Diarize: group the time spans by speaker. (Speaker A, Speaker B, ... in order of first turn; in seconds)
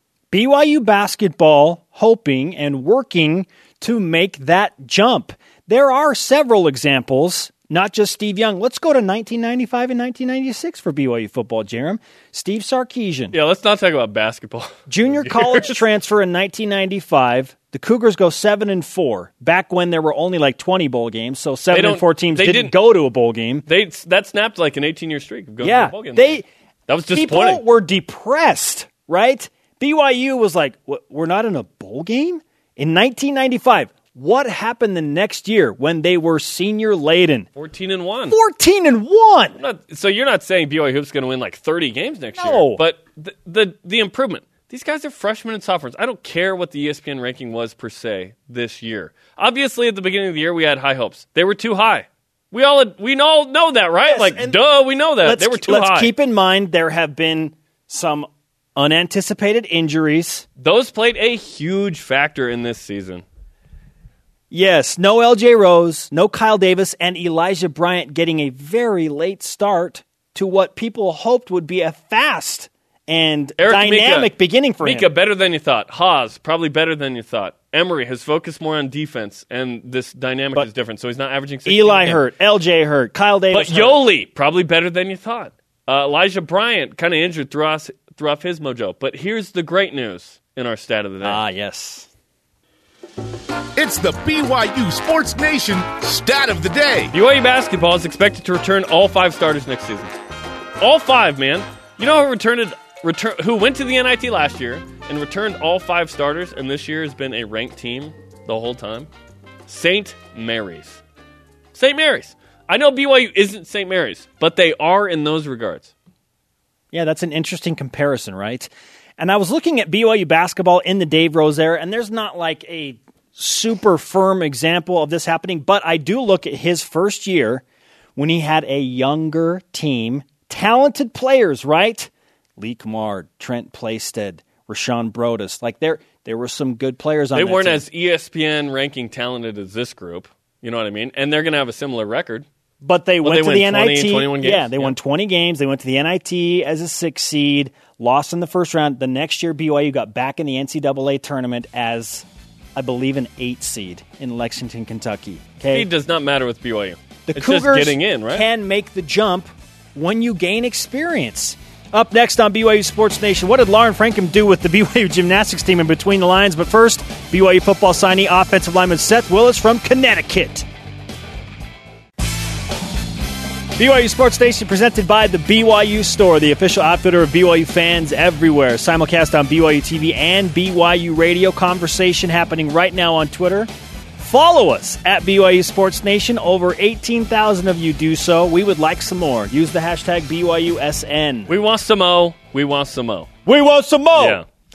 Speaker A: 0.3-13.4, 14.9-23.7, 25.6-26.4, 27.1-37.5, 38.3-39.6, 42.4-42.8, 54.0-54.6, 55.2-60.5, 64.5-75.1, 81.7-84.0, 91.2-92.1, 116.9-127.6, 128.2-137.8, 142.8-152.2, 152.8-155.9, 157.3-170.7, 173.8-191.5, 193.5-194.4
Speaker B: 13.3-15.7, 21.7-22.7, 23.7-27.6, 37.6-38.4, 39.6-56.1, 60.6-63.2, 73.6-74.3, 74.8-82.2, 83.5-91.4, 97.1-100.2, 100.8-109.1, 109.7-111.0, 111.8-115.9, 137.3-142.5, 143.2-144.9, 155.7-158.5, 191.5-193.3, 194.2-194.4
Speaker C: 93.8-97.1